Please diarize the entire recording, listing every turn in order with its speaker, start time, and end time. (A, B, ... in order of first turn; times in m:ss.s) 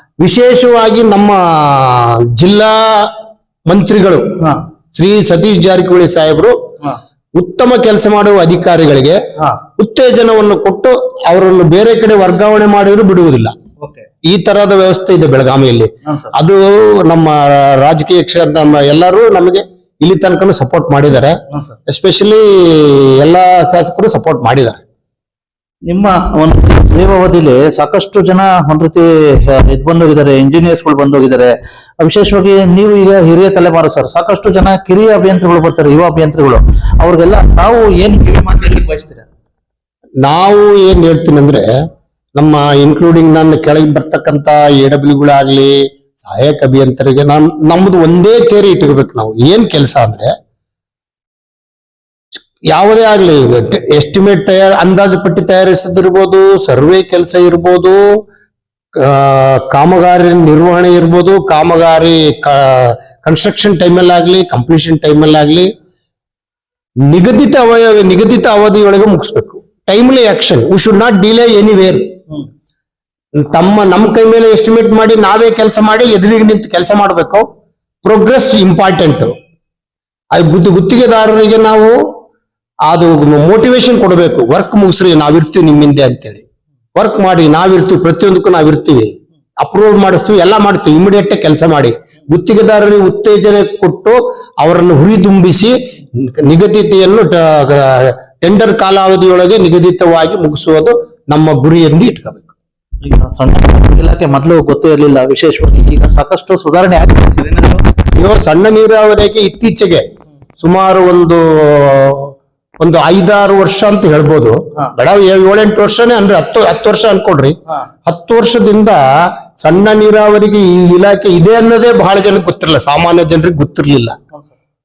0:00.2-0:03.1 A
0:03.6-0:04.3 A
0:04.9-0:06.6 A
0:07.4-0:09.2 A
0:09.8-0:13.5 A
0:13.8-0:14.0 B
0:14.2-0:24.8 A
0:25.9-0:39.2 B
0:40.2-0:41.6 A
0:42.4-0:50.3 A
0:52.7-0:58.2 A
0:58.9-1:05.7 A
1:07.1-1:12.1 A
1:13.4-1:17.4 A
1:18.0-1:19.3 A
1:20.3-1:22.0 A
1:22.9-1:26.4 A
1:27.0-1:42.5 A
1:43.0-1:47.8 B
1:48.2-1:50.0 A
1:50.6-2:04.2 A